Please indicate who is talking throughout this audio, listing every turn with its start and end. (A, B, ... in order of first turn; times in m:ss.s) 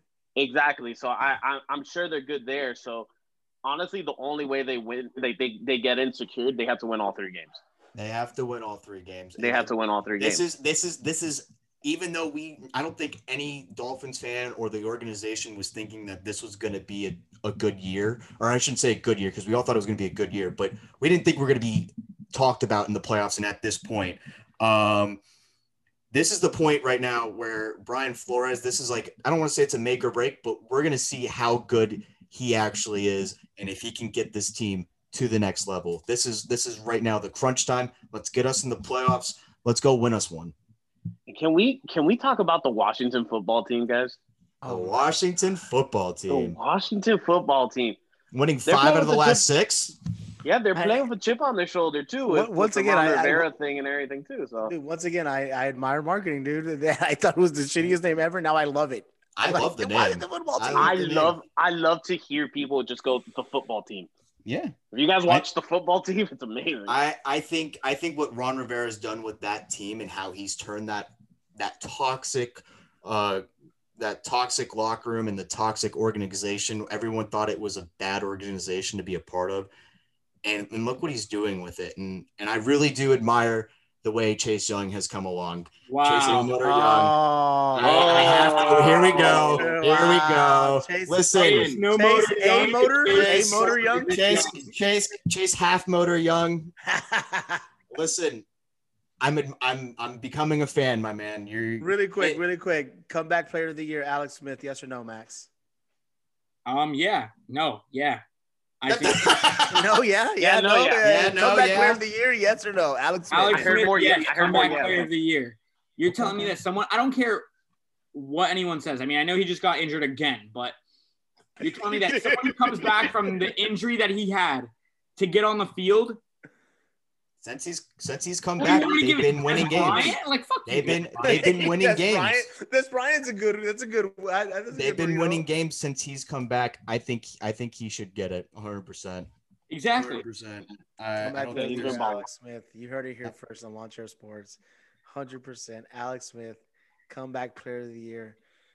0:00.4-0:03.1 A
0:03.6-0:07.6 A
0:07.9-0:25.2 B
0:09.4-0:10.4 A
0:26.1-0:40.5 B
0:41.3-0:44.2 A
0:44.6-0:45.0 C
0:44.6-0:46.6 B
0:46.3-0:48.0 A
0:48.3-0:49.9 B
0:48.6-0:49.4 A
0:50.4-0:54.7 A
0:50.7-0:51.0 C
0:52.3-0:53.5 C
0:54.6-1:01.0 C
0:59.4-1:01.4 B
1:00.7-1:04.1 A
1:04.4-1:04.7 B
1:04.9-1:07.0 A
1:06.9-1:13.4 B
1:14.0-1:19.7 B
1:20.4-1:27.2 B
1:25.9-1:26.5 D
1:26.6-1:28.4 C
1:27.7-1:31.8 B
1:27.8-1:29.6 A
1:27.8-1:29.5 D
1:29.1-1:34.5 C
1:31.3-1:34.5 D
1:33.0-1:36.7 B
1:36.8-1:37.6 C
1:37.9-1:38.4 B
1:39.2-1:42.4 B
1:41.8-1:45.5 C
1:46.6-1:48.2 D
1:48.8-1:49.4 D
1:48.9-1:49.9 B
1:49.7-1:54.9 C
1:50.4-1:51.1 A
1:51.0-1:52.0 B
1:53.3-1:57.5 D
1:53.5-1:55.1 A
1:58.1-2:00.8 D
2:01.6-2:06.2 D
2:01.6-2:03.3 C
2:07.4-2:12.4 B
2:08.6-2:11.4 D
2:11.2-2:15.4 C
2:14.7-2:19.3 B
2:19.7-2:20.2 D
2:20.0-2:22.1 B
2:21.2-2:28.4 C
2:21.5-2:22.3 A